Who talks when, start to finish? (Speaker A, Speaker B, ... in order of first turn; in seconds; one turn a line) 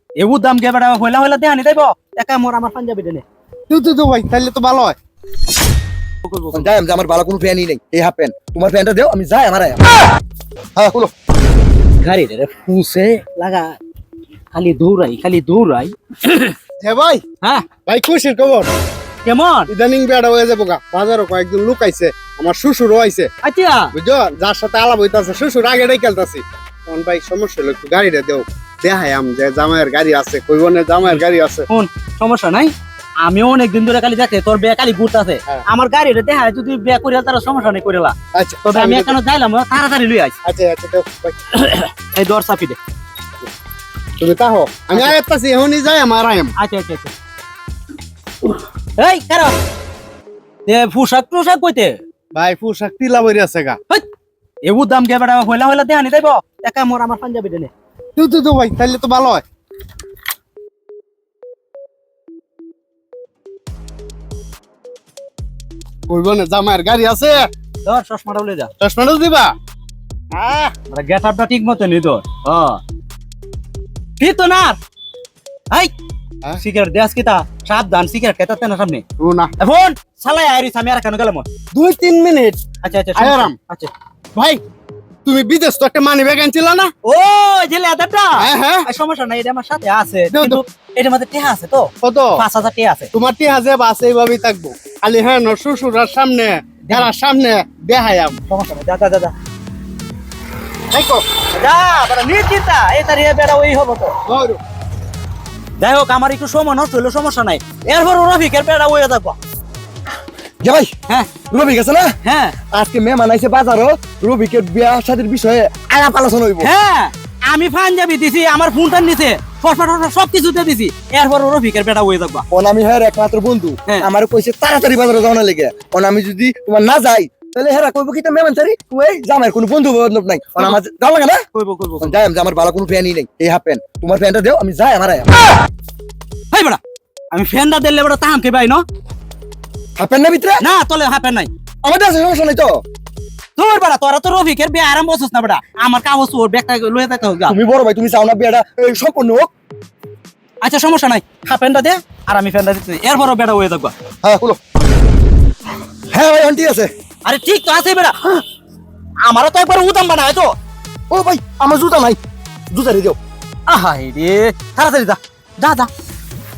Speaker A: 0.2-3.2
Speaker B: 3.7-5.0
Speaker A: 6.2-6.7
Speaker C: 6.5-9.8
Speaker C: 10.8-11.1
Speaker A: 12.0-13.8
Speaker A: 14.5-16.5
Speaker B: 16.8-17.2
Speaker B: 17.9-18.7
Speaker A: 19.2-19.7
Speaker B: 19.7-23.3
Speaker A: 23.4-23.9
Speaker B: 23.9-31.7
Speaker A: 31.7-38.1
Speaker B: 38.3-39.2
Speaker A: 38.6-40.3
Speaker B: 40.4-41.4
Speaker A: 41.5-42.8
Speaker B: 44.2-46.5
Speaker A: 46.6-47.1
Speaker A: 49.0-49.5
Speaker A: 50.6-52.0
Speaker B: 52.3-53.8
Speaker A: 54.6-57.7
Speaker B: 58.2-59.4
Speaker B: 66.1-67.5
Speaker A: 67.8-68.7
Speaker B: 68.8-69.5
Speaker B: 70.3-70.7
Speaker A: 70.9-72.8
Speaker A: 74.2-74.8
Speaker A: 76.6-79.0
Speaker B: 79.2-79.5
Speaker A: 79.6-81.5
Speaker B: 81.7-82.6
Speaker A: 82.8-83.9
Speaker B: 83.2-83.5
Speaker B: 84.3-84.6
Speaker B: 85.2-86.9
Speaker A: 87.0-93.1
Speaker B: 88.4-88.9
Speaker B: 90.3-90.6
Speaker B: 92.0-92.4
Speaker B: 93.1-98.4
Speaker A: 96.8-97.1
Speaker A: 98.5-99.3
Speaker B: 100.9-101.2
Speaker A: 101.5-104.2
Speaker B: 104.2-104.6
Speaker A: 105.8-109.3
Speaker C: 110.6-110.9
Speaker C: 111.5-112.1
Speaker A: 112.2-112.5
Speaker C: 112.7-116.7
Speaker A: 116.6-122.4
Speaker C: 122.5-131.4
Speaker A: 131.5-132.2
Speaker C: 132.0-135.3
Speaker A: 136.5-136.8
Speaker A: 137.3-138.8
Speaker C: 140.0-140.6
Speaker A: 140.6-141.5
Speaker C: 141.8-142.8
Speaker A: 143.6-147.6
Speaker C: 147.5-149.5
Speaker A: 150.6-153.9
Speaker C: 154.2-154.6
Speaker C: 156.1-156.9
Speaker A: 157.2-158.4
Speaker A: 159.2-160.5
Speaker C: 161.1-162.2
Speaker C: 162.7-163.2
Speaker A: 163.7-165.9